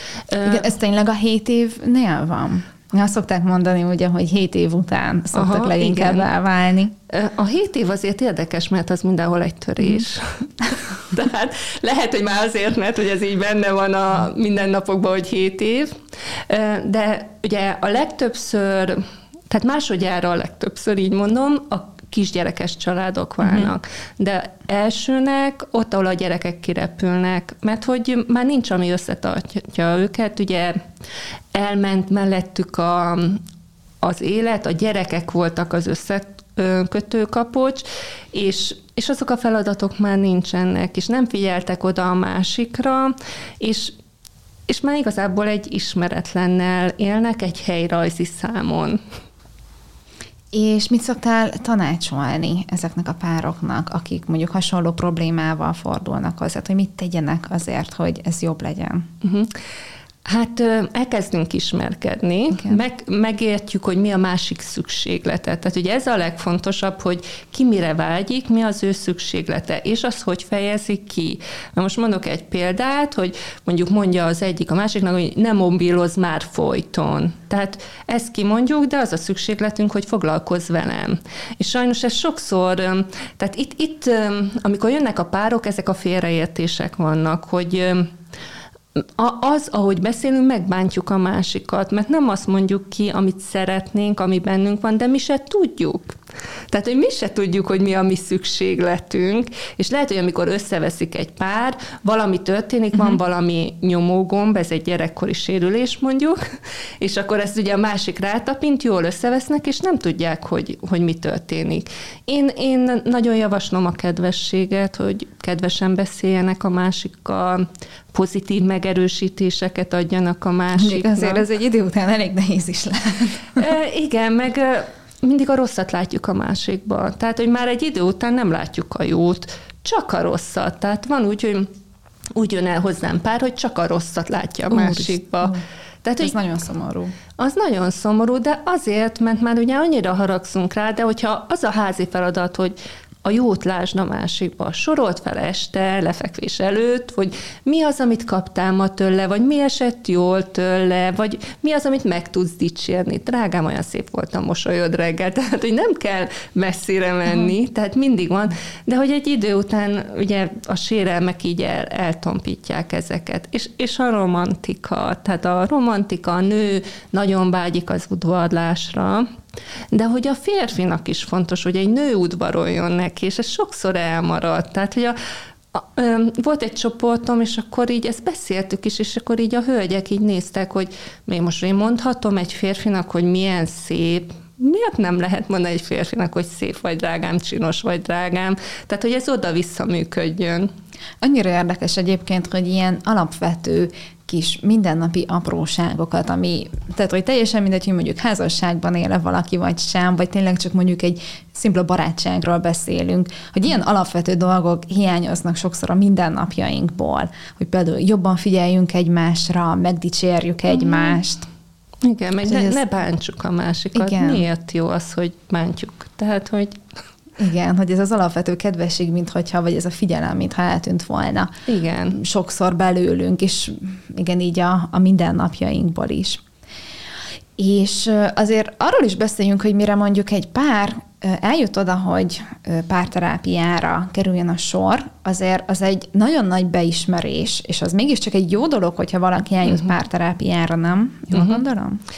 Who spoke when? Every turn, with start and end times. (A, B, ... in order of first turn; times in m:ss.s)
0:00.3-0:00.7 A
0:00.4-0:06.9 B
0:05.3-0:06.3 A
0:07.1-0:30.8 A
0:23.4-0:23.7 B
0:31.5-0:33.4 A
0:34.0-0:44.0 A
0:44.7-0:49.0 A
0:50.5-0:59.1 B
0:59.2-0:59.5 A
1:00.2-1:28.1 A
1:29.2-1:36.2 A
1:36.7-1:46.4 A
1:47.0-2:01.4 A
2:00.8-2:03.6 B
2:03.6-2:11.7 A
2:12.4-2:16.4 A
2:14.7-2:15.6 B
2:16.2-2:17.2 B
2:17.4-2:49.3 A
2:49.9-2:55.2 A
2:55.7-3:10.7 A
3:11.2-3:31.5 B
3:30.8-3:31.2 A
3:32.0-3:36.8 A
3:32.4-3:32.8 B
3:33.9-3:34.4 B
3:37.4-3:41.5 B
3:41.7-3:42.2 A
3:42.1-3:46.4 B
3:47.6-4:02.0 B
4:01.3-4:01.6 A